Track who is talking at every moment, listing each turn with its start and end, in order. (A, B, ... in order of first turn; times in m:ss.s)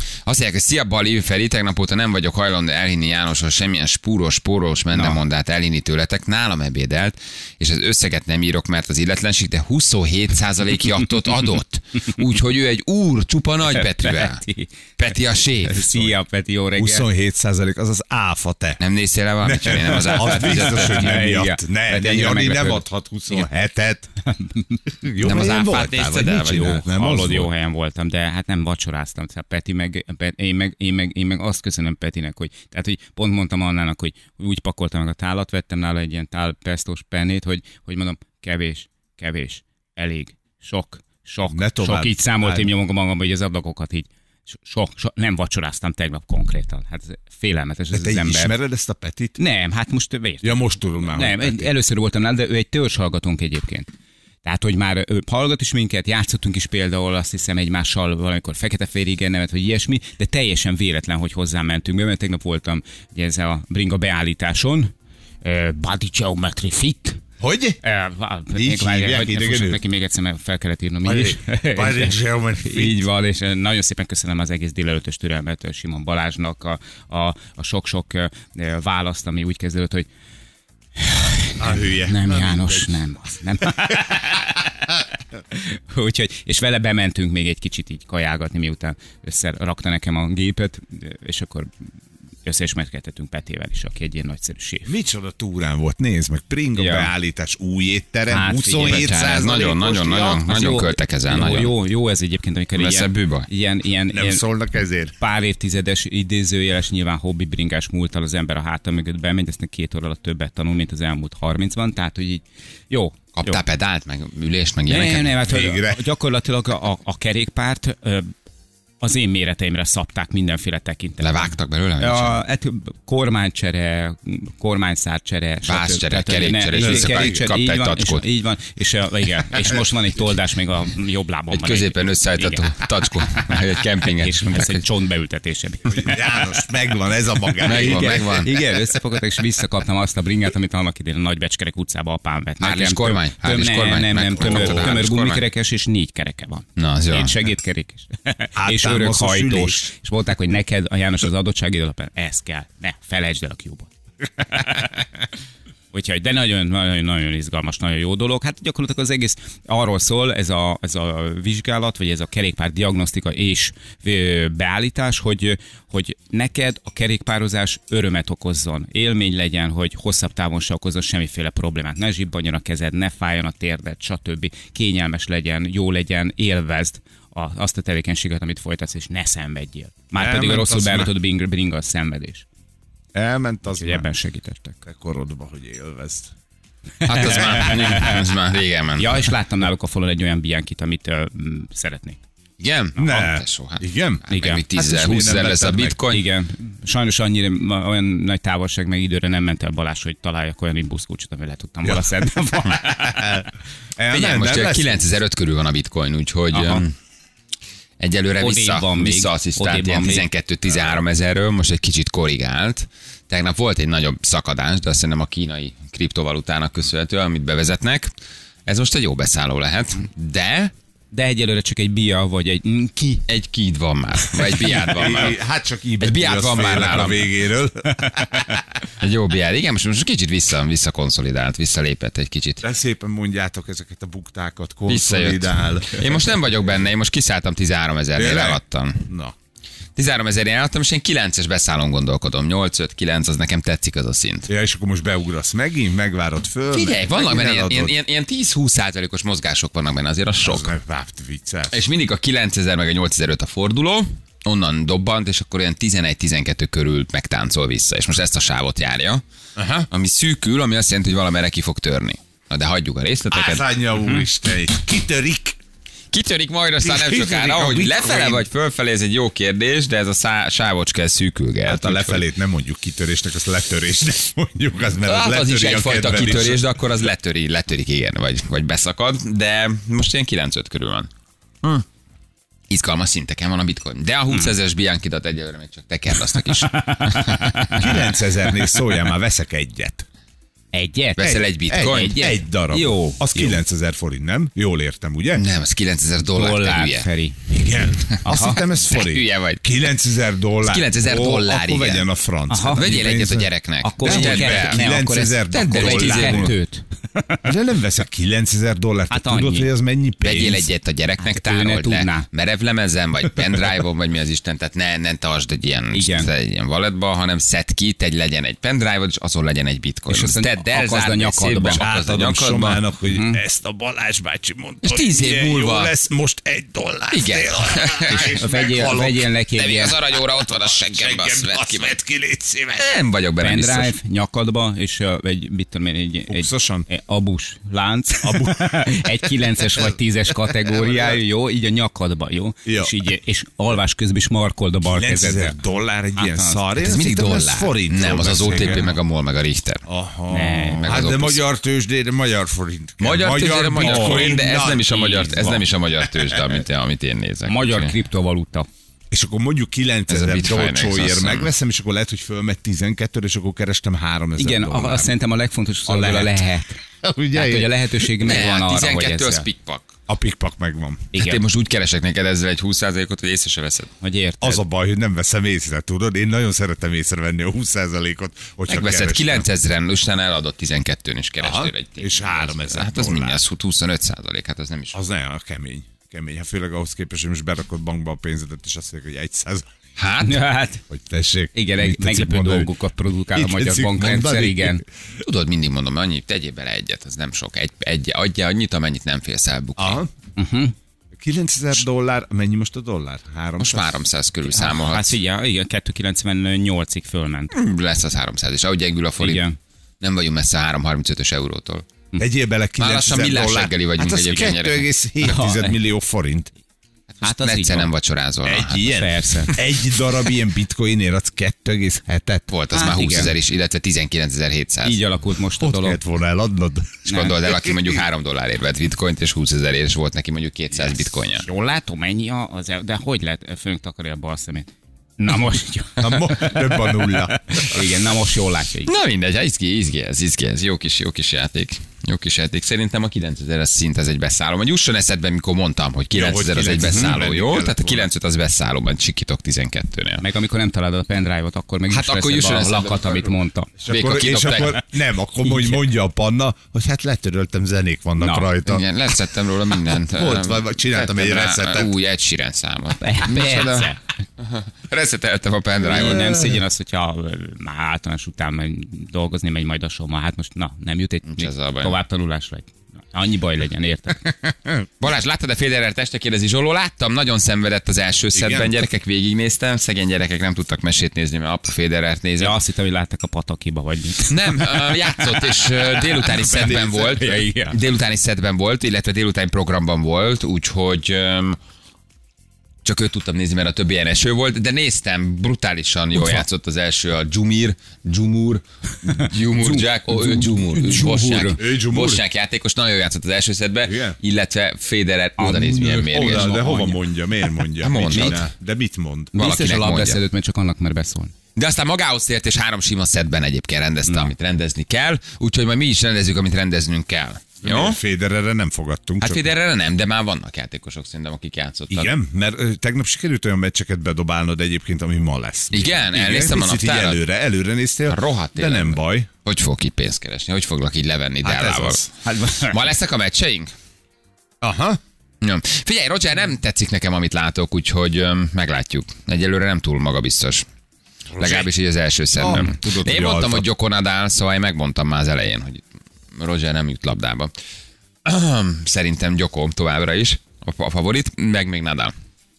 0:00.2-0:14.4 A
0:13.7-0:14.7 B
0:15.0-0:15.9 A
0:15.7-0:17.1 B
0:16.8-0:18.8 C
0:18.8-0:21.1 A
0:19.4-0:24.1 C
0:20.1-0:22.8 B
0:24.4-0:24.8 B
0:25.0-0:27.5 C
0:25.2-0:26.7 A
0:26.5-0:48.5 B
0:41.5-0:42.7 C
0:47.9-0:49.4 C
0:49.4-0:53.9 B
0:50.4-0:51.7 C
0:54.4-1:07.2 B
1:07.4-1:07.8 C
1:07.8-1:20.1 B
1:08.5-1:09.8 C
1:11.0-1:13.0 C
1:21.0-1:24.6 B
1:21.6-1:23.0 C
1:23.6-1:24.6 C
1:25.5-1:31.7 B
1:32.4-1:34.9 B
1:34.8-1:40.4 C
1:36.8-1:37.1 B
1:38.3-1:39.1 B
1:38.8-1:41.7 A
1:40.4-1:44.4 B
1:42.8-1:43.5 A
1:44.1-1:45.1 C
1:45.2-1:53.6 B
1:53.4-1:55.3 A
1:54.9-1:58.3 B
1:55.4-1:56.0 C
1:59.0-2:13.6 B
2:01.2-2:02.4 A
2:05.7-2:08.2 A
2:06.8-2:07.4 C
2:11.5-2:14.8 A
2:14.1-2:16.2 B
2:15.9-2:19.0 C
2:17.6-2:18.5 A
2:17.7-2:33.9 B
2:22.6-2:25.4 A
2:24.4-2:24.9 C
2:26.8-2:27.3 A
2:28.6-2:29.9 C
2:34.5-2:34.9 B
2:34.6-2:34.8 C
2:35.9-3:02.4 B
3:00.2-3:01.1 C
3:03.1-3:04.0 C
3:03.8-3:04.8 B
3:04.8-3:06.3 C
3:07.0-3:08.2 B
3:07.0-3:09.3 A
3:07.2-3:08.2 C
3:09.0-3:12.2 B
3:12.6-3:16.2 A
3:13.0-3:16.0 C
3:14.3-3:14.6 B
3:16.1-3:23.2 B
3:22.6-3:25.0 C
3:24.1-3:26.9 A
3:26.5-3:26.8 B
3:28.0-3:38.1 A
3:28.4-3:30.2 B
3:38.6-3:40.7 A
3:41.1-3:43.2 B
3:43.3-3:45.4 A
3:44.6-3:48.8 C
3:46.0-3:47.3 A
3:49.0-3:52.6 A
3:52.6-3:56.6 C
3:54.9-3:59.1 A
3:58.1-3:59.4 C
4:00.0-4:04.5 A
4:04.5-4:07.9 C
4:06.7-4:10.8 A
4:10.4-4:11.9 C
4:11.7-4:19.2 A
4:19.6-4:19.9 C
4:19.9-4:23.7 A
4:23.3-4:25.6 C
4:26.1-4:32.2 A
4:26.8-4:28.4 C
4:31.6-4:36.8 C
4:35.0-4:41.1 A
4:42.7-4:47.5 A
4:46.6-4:47.9 B
4:47.8-4:50.1 C
4:50.7-4:53.6 B
4:51.2-4:52.3 A
4:51.7-4:55.4 C
4:55.3-4:57.1 A
4:56.3-4:57.4 B
4:57.5-5:03.5 C
4:58.2-4:58.6 B
4:58.3-4:59.6 A
5:00.6-5:02.1 A
5:02.5-5:03.0 B
5:02.8-5:04.8 A
5:03.8-5:07.5 B
5:04.0-5:06.5 C
5:05.5-5:06.6 A
5:07.4-5:10.7 C
5:09.1-5:09.7 B
5:10.2-5:22.8 A
5:11.2-5:12.3 B
5:15.9-5:16.3 B
5:20.1-5:21.8 B
5:21.7-5:29.3 C
5:23.1-5:23.4 B
5:24.8-5:25.9 A
5:27.1-5:28.4 A
5:28.1-5:30.0 B
5:29.6-5:32.0 A
5:30.4-5:32.9 C
5:32.8-5:33.9 A
5:33.4-5:45.6 B
5:36.3-5:36.9 C
5:38.2-5:41.2 C
5:42.6-5:43.0 C
5:44.8-5:48.9 C
5:46.2-5:46.7 B
5:46.8-5:49.8 A
5:49.9-5:55.0 C
5:50.3-5:50.8 B
5:50.8-5:51.4 A
5:53.0-5:57.9 A
5:53.8-5:55.7 B
5:56.1-5:56.4 C
5:57.5-5:58.7 B
5:59.1-6:05.1 C
6:00.1-6:01.5 A
6:04.4-6:06.8 B
6:05.8-6:07.8 C
6:07.3-6:09.4 B
6:08.2-6:09.9 A
6:10.1-6:11.1 C
6:11.1-6:11.4 B
6:11.1-6:13.9 A
6:14.0-6:14.6 B
6:14.4-6:19.4 C
6:18.7-6:25.0 A
6:21.4-6:23.4 C
6:24.9-6:29.7 C
6:30.0-6:30.4 A
6:30.2-6:30.8 B
6:30.9-6:32.7 C
6:31.5-6:34.8 B
6:33.3-6:34.8 C
6:35.2-6:40.0 A
6:39.8-6:40.1 C
6:40.4-6:40.7 B
6:41.2-6:44.0 C
6:43.6-6:45.2 A
6:44.5-6:47.5 B
6:47.5-6:49.4 A
6:49.2-6:49.6 B
6:50.0-6:51.9 A
6:52.2-6:56.5 C
6:52.8-6:54.9 A
6:55.2-6:55.8 B
6:57.2-6:58.9 A
6:57.2-6:57.9 B
6:58.4-7:02.5 C
6:58.9-6:59.6 B
7:02.5-7:05.0 A
7:02.7-7:03.3 B
7:04.8-7:06.0 B
7:05.6-7:08.0 C
7:07.1-7:07.3 B
7:07.1-7:11.4 A
7:11.4-7:16.6 B
7:16.0-7:17.4 C
7:17.5-7:18.9 B
7:18.9-7:30.2 A
7:26.1-7:28.1 C
7:26.8-7:27.1 B
7:30.2-7:33.7 B
7:31.9-7:33.3 A
7:33.8-7:38.9 C
7:33.9-7:34.8 A
7:35.4-7:35.8 B
7:38.2-7:38.5 B
7:38.6-7:46.4 A
7:39.7-7:41.9 C
7:43.0-7:44.0 B
7:45.8-7:54.3 B
7:45.9-7:46.6 C
7:51.3-7:51.9 A
7:55.0-8:02.6 A
7:58.3-7:58.7 C
8:02.4-8:05.7 B
8:04.2-8:11.6 A
8:06.4-8:07.1 C
8:06.8-8:07.8 B
8:12.8-8:26.6 A
8:16.1-8:16.4 B
8:19.1-8:21.6 B
8:21.6-8:22.2 C
8:23.8-8:24.2 C
8:25.4-8:27.0 B
8:25.9-8:29.3 C
8:27.8-8:28.4 A
8:28.1-8:28.4 B
8:29.3-8:31.3 B
8:29.3-8:30.2 A
8:31.6-8:38.0 A
8:34.0-8:34.3 B
8:37.6-8:39.5 C
8:39.2-8:42.1 A
8:41.9-8:49.3 C
8:45.7-8:47.2 A
8:48.1-8:52.0 A
8:51.4-8:52.1 C
8:52.2-8:52.8 B
8:52.7-8:53.7 A
8:54.6-8:55.0 C
8:55.4-9:00.6 A
9:01.3-9:01.7 C
9:01.4-9:07.5 A
9:02.3-9:03.7 C
9:08.2-9:12.1 A